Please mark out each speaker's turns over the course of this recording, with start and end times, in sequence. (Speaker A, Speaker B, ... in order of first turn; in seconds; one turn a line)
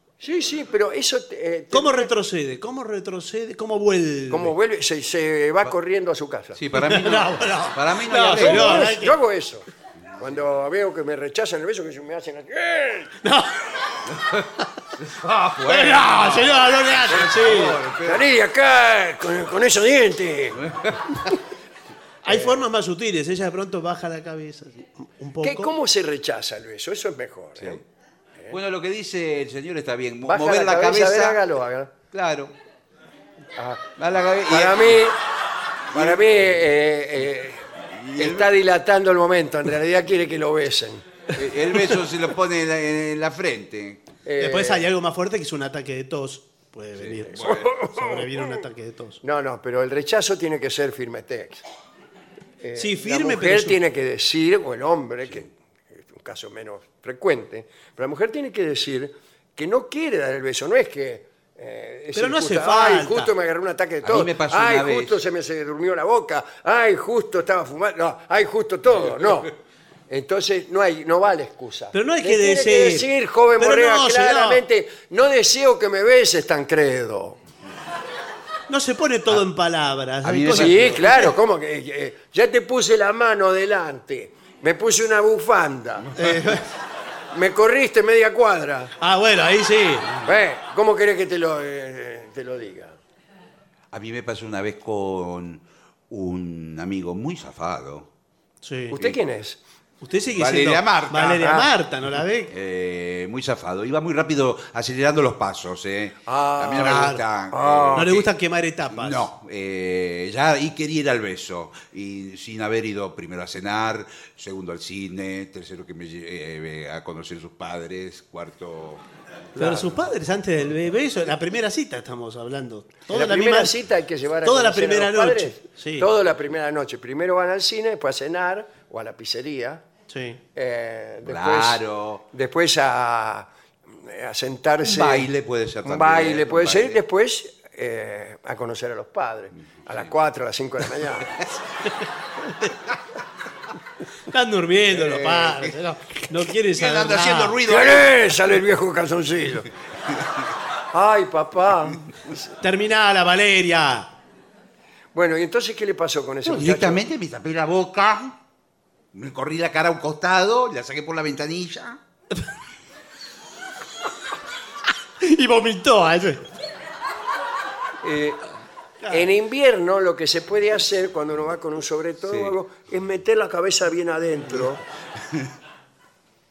Speaker A: 0.2-2.1
Speaker B: 1.7-4.5
Speaker A: 4.3-6.6
Speaker C: 6.5-8.9
Speaker B: 6.7-9.2
Speaker A: 8.3-9.7
Speaker A: 10.2-13.2
Speaker B: 13.2-14.0
Speaker C: 14.1-18.2
Speaker B: 15.6-17.8
Speaker A: 18.0-20.6
Speaker C: 20.5-21.3
Speaker B: 22.2-25.7
Speaker A: 22.3-22.6
Speaker A: 25.4-27.8
Speaker C: 28.5-31.4
Speaker A: 30.2-31.9
Speaker C: 32.1-32.5
Speaker A: 33.6-33.9
Speaker C: 34.0-35.1
Speaker A: 34.5-35.2
Speaker A: 35.9-41.0
Speaker C: 35.9-36.4
Speaker C: 38.0-38.5
Speaker C: 41.3-44.1
Speaker A: 44.2-44.9
Speaker B: 44.4-49.2
Speaker C: 47.0-47.7
Speaker A: 47.4-48.4
Speaker A: 49.2-51.6
Speaker A: 52.6-69.5
Speaker B: 52.8-53.8
Speaker B: 62.1-63.3
Speaker C: 64.0-65.2
Speaker A: 70.1-77.4
Speaker B: 71.9-74.6
Speaker B: 78.7-81.3
Speaker C: 80.2-81.0
Speaker A: 80.5-86.1
Speaker B: 86.2-86.7
Speaker A: 87.3-88.9
Speaker B: 89.0-90.1
Speaker A: 90.2-93.0
Speaker C: 93.9-98.1
Speaker B: 98.6-99.0
Speaker A: 98.9-99.6
Speaker B: 100.0-102.5
Speaker C: 100.3-101.5
Speaker A: 101.4-101.7
Speaker C: 102.5-108.3
Speaker A: 106.3-108.1
Speaker B: 106.8-107.2
Speaker B: 108.0-109.3
Speaker C: 108.9-119.0
Speaker B: 119.6-123.8
Speaker A: 119.6-119.9
Speaker A: 123.1-129.8
Speaker B: 124.5-126.1
Speaker B: 130.1-130.4
Speaker A: 130.6-135.3
Speaker C: 131.2-132.2
Speaker C: 134.8-137.0
Speaker A: 135.8-141.4
Speaker B: 144.3-147.6
Speaker A: 144.9-145.6
Speaker C: 146.7-148.2
Speaker A: 147.7-149.7
Speaker A: 150.9-152.4
Speaker B: 152.6-154.1
Speaker A: 155.1-157.0
Speaker C: 156.4-158.4
Speaker C: 159.1-162.0
Speaker B: 165.2-166.5
Speaker A: 168.0-168.5
Speaker B: 169.0-169.3
Speaker A: 169.1-174.8
Speaker C: 172.3-172.5